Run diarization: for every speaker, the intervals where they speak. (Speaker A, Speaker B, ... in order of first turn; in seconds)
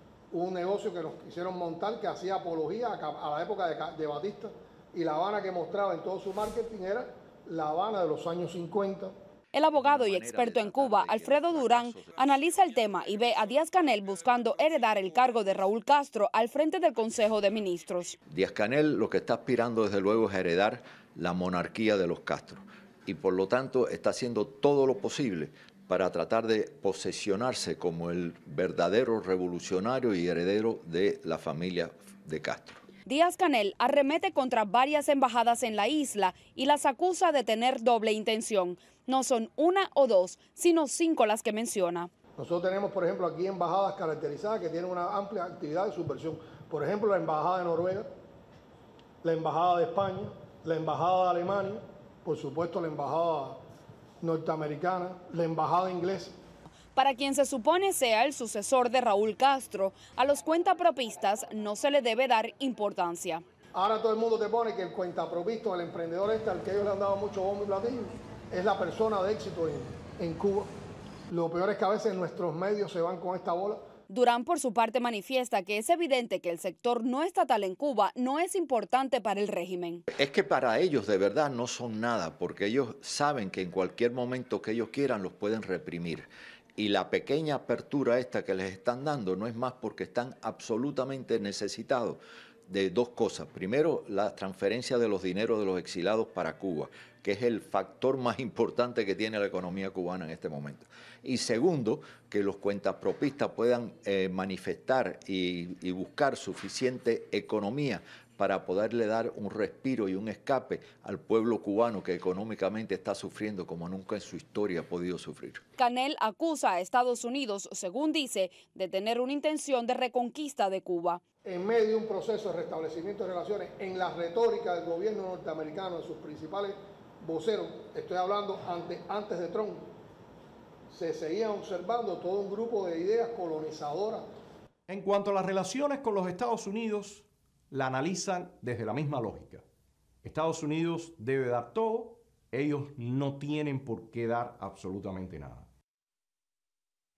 Speaker A: 0.3-9.1, 42.4-48.1, 49.2-53.6, 54.2-56.3, 63.7-70.7, 71.3-73.8, 121.4-129.8, 130.9-134.2
Speaker B: 9.5-18.2, 33.0-42.1, 56.9-63.4, 74.1-80.0, 115.8-121.2
Speaker C: 9.7-12.2, 18.3-32.8, 80.1-115.6
Speaker D: 134.9-139.6, 140.2-145.7